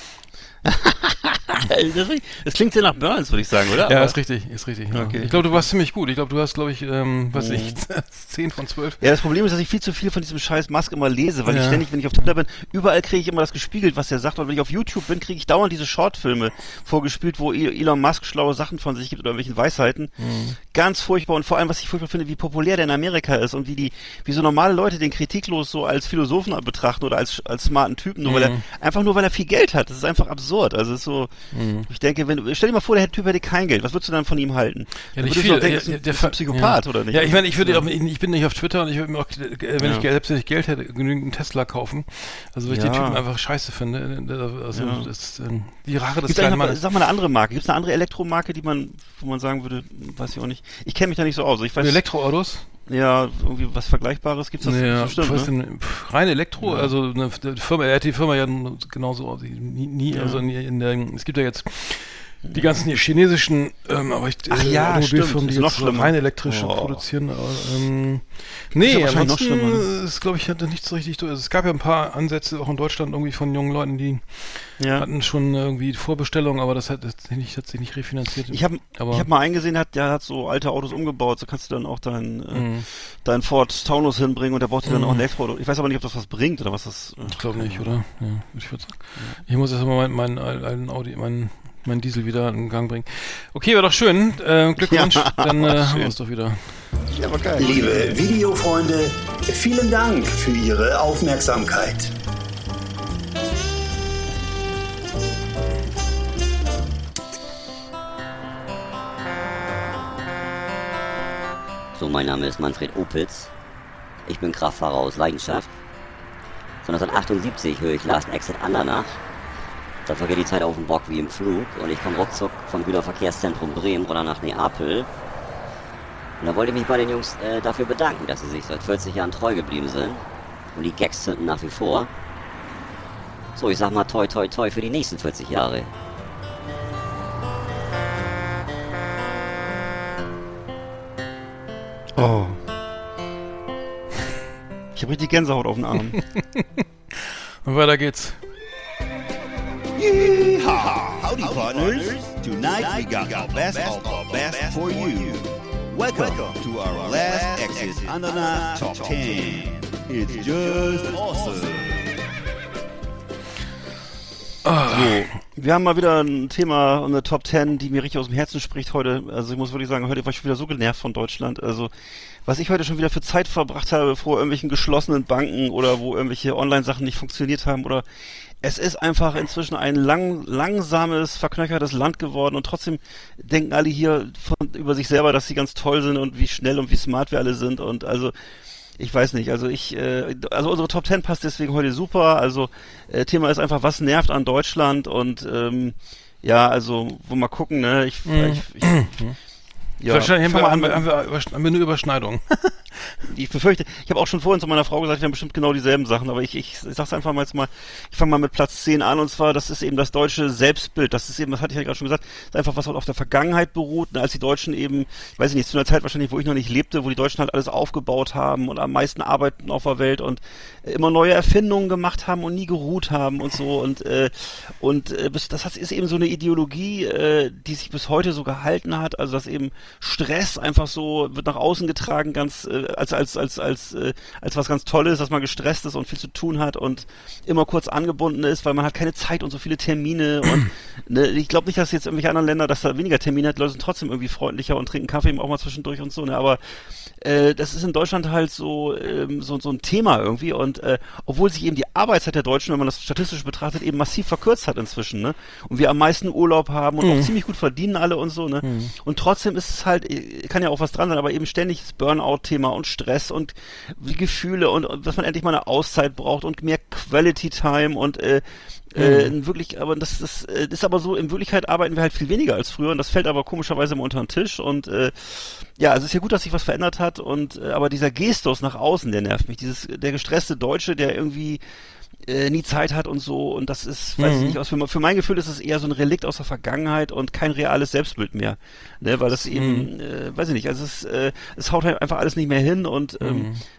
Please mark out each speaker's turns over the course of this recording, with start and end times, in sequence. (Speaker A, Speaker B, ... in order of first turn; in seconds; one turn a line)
Speaker A: 0.7-4.2
Speaker B: 3.9-9.0
Speaker A: 4.9-5.6
Speaker A: 7.3-7.8
Speaker A: 9.0-20.1
Speaker B: 11.5-11.9
Speaker B: 20.2-20.6
Speaker A: 20.7-31.3
Speaker B: 28.2-28.6
Speaker B: 31.5-31.9
Speaker A: 31.9-37.9
Speaker B: 35.1-46.8
Speaker A: 39.8-40.1
Speaker A: 42.7-43.2
Speaker A: 44.7-45.1
Speaker A: 46.3-52.0
Speaker B: 51.8-52.7
Speaker A: 52.9-55.5
Speaker B: 54.6-79.3
Speaker A: 56.6-56.9
Speaker A: 60.1-60.4
Speaker A: 64.5-67.0
Speaker A: 68.8-69.9
Speaker A: 74.8-75.1
Speaker A: 78.5-87.9
Speaker B: 82.5-82.9
Speaker B: 84.9-85.2
Speaker B: 87.2-96.8
Speaker A: 94.8-96.1
Speaker A: 97.2-98.1
Speaker C: 97.6-102.1
Speaker D: 112.0-113.5
Speaker D: 114.3-115.7
Speaker D: 116.8-119.2
Speaker D: 120.1-125.1
Speaker D: 126.4-130.2
Speaker D: 130.8-132.1
Speaker D: 133.6-135.9
Speaker A: 142.2-142.6
Speaker A: 144.9-146.2
Speaker B: 146.2-148.4
Speaker E: 150.0-162.1
Speaker B: 164.7-165.3
Speaker A: 164.9-171.9
Speaker A: 172.4-178.1
Speaker A: 178.6-188.3
Speaker A: 189.0-199.1
Speaker B: 198.3-199.4
Speaker A: 200.0-201.0
Speaker B: 200.1-203.2
Speaker A: 203.3-246.6
Speaker A: 247.2-281.6
Speaker B: 257.0-257.4
Speaker B: 258.6-258.9
Speaker B: 269.0-269.3
Speaker A: 282.2-293.5
Speaker B: 284.2-284.6
Speaker B: 289.4-289.9
Speaker B: 293.2-293.6